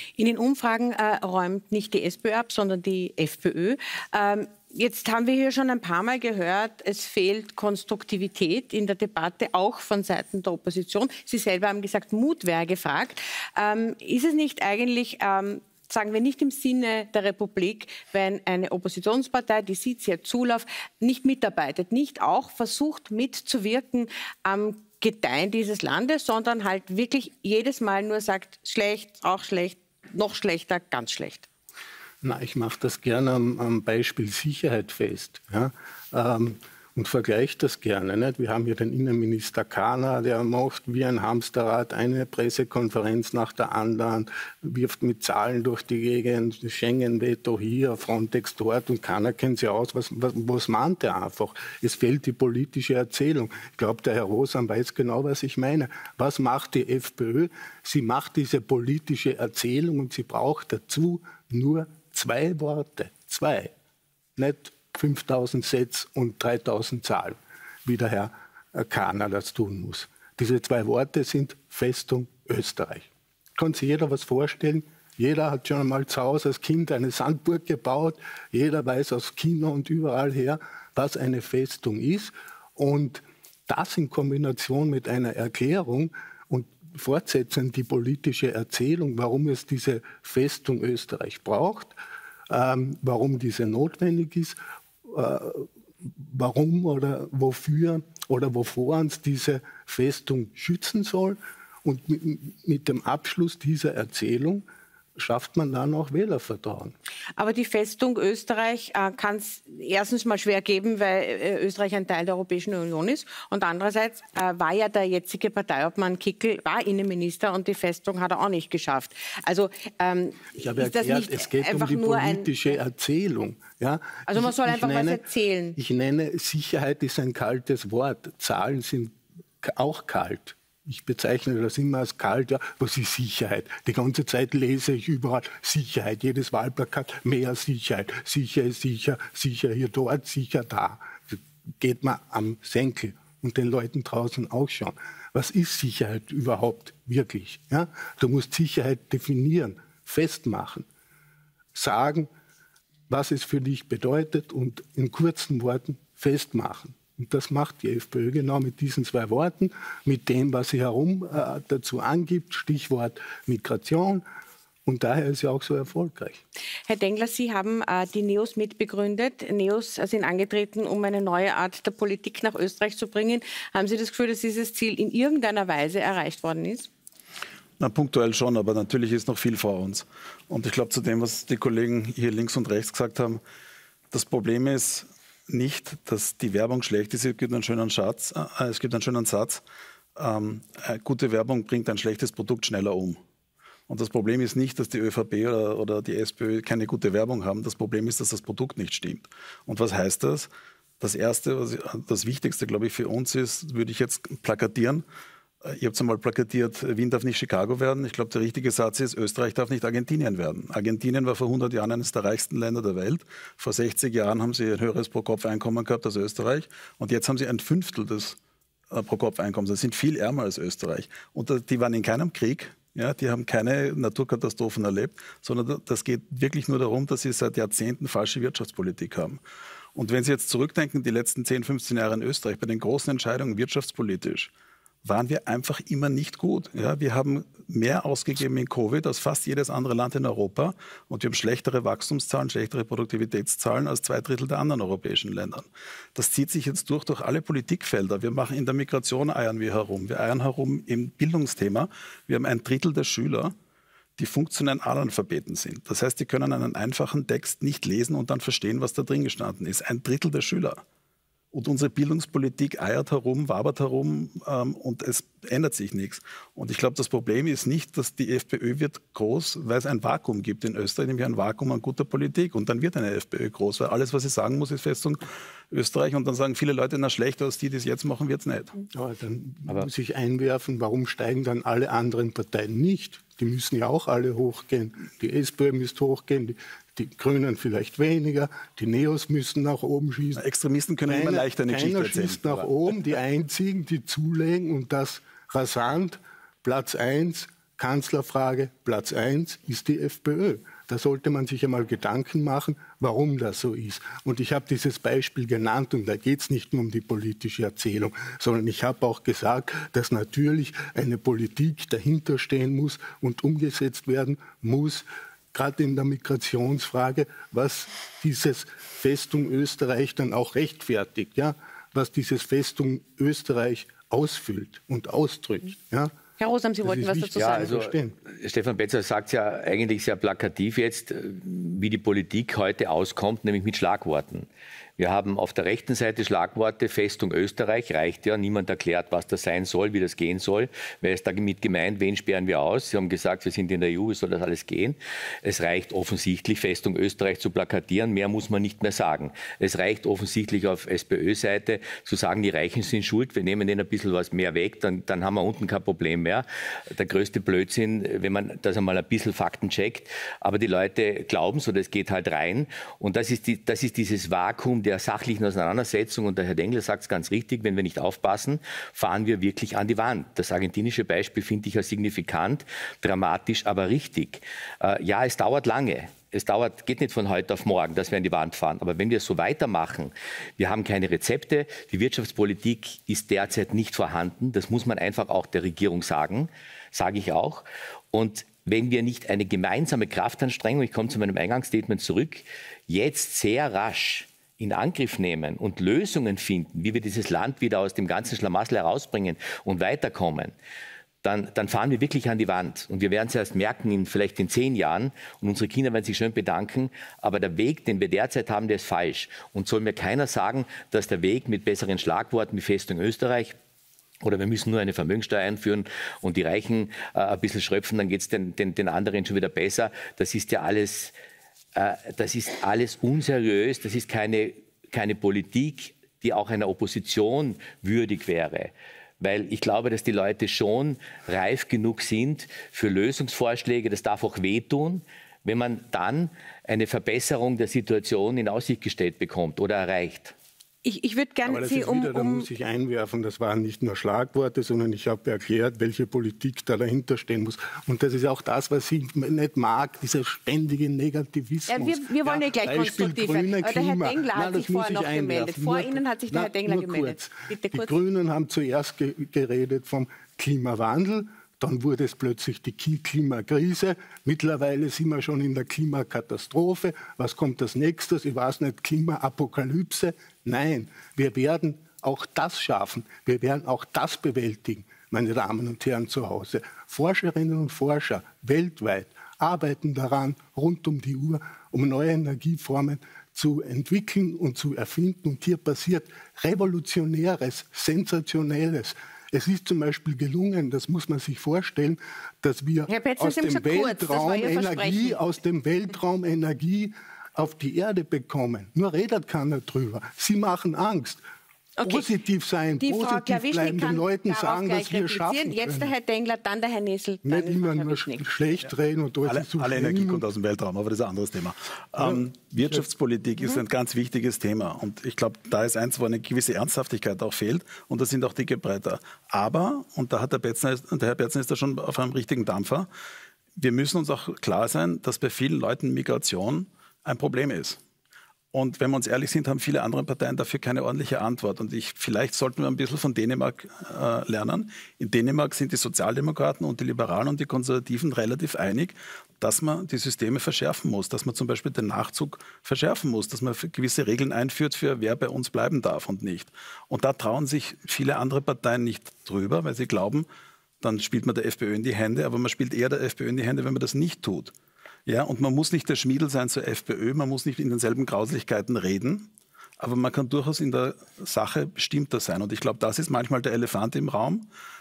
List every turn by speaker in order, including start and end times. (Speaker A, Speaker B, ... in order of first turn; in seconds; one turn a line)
Speaker A: 0.2-31.5
Speaker B: 32.2-63.7
Speaker B: 64.4-73.1
Speaker B: 73.6-91.9
Speaker B: 92.5-94.6
Speaker B: 95.1-104.6
Speaker B: 105.2-106.9
Speaker A: 107.4-122.6
Speaker B: 120.6-125.2
Speaker A: 124.3-125.8
Speaker B: 125.8-150.9
Speaker B: 151.8-152.3
Speaker B: 153.1-164.2
Speaker B: 164.9-166.4
Speaker A: 166.9-176.9
Speaker C: 177.8-183.4
Speaker C: 184.1-189.6
Speaker C: 190.2-193.2
Speaker C: 193.9-205.0
Speaker C: 205.6-218.4
Speaker C: 218.9-229.4
Speaker C: 229.9-234.5
Speaker C: 235.1-253.6
Speaker C: 254.2-260.8
Speaker C: 261.5-278.8
Speaker B: 278.9-290.4
Speaker C: 290.4-292.7
Speaker B: 291.1-326.1
Speaker A: 326.4-327.8
Speaker B: 326.8-328.1
Speaker D: 327.4-400.5
Speaker D: 401.2-413.6
Speaker D: 414.2-421.1
Speaker D: 421.8-440.4
Speaker A: 440.9-442.5
Speaker B: 441.4-501.2
Speaker A: 451.7-457.9
Speaker A: 492.9-495.2
Speaker A: 501.8-502.1
Speaker B: 501.9-505.9
Speaker A: 502.8-508.3
Speaker B: 507.2-510.2
Speaker C: 509.2-522.9
Speaker B: 512.0-512.8
Speaker C: 523.6-527.8
Speaker C: 528.5-550.3
Speaker C: 550.8-554.5
Speaker C: 555.1-559.3
Speaker C: 559.8-564.5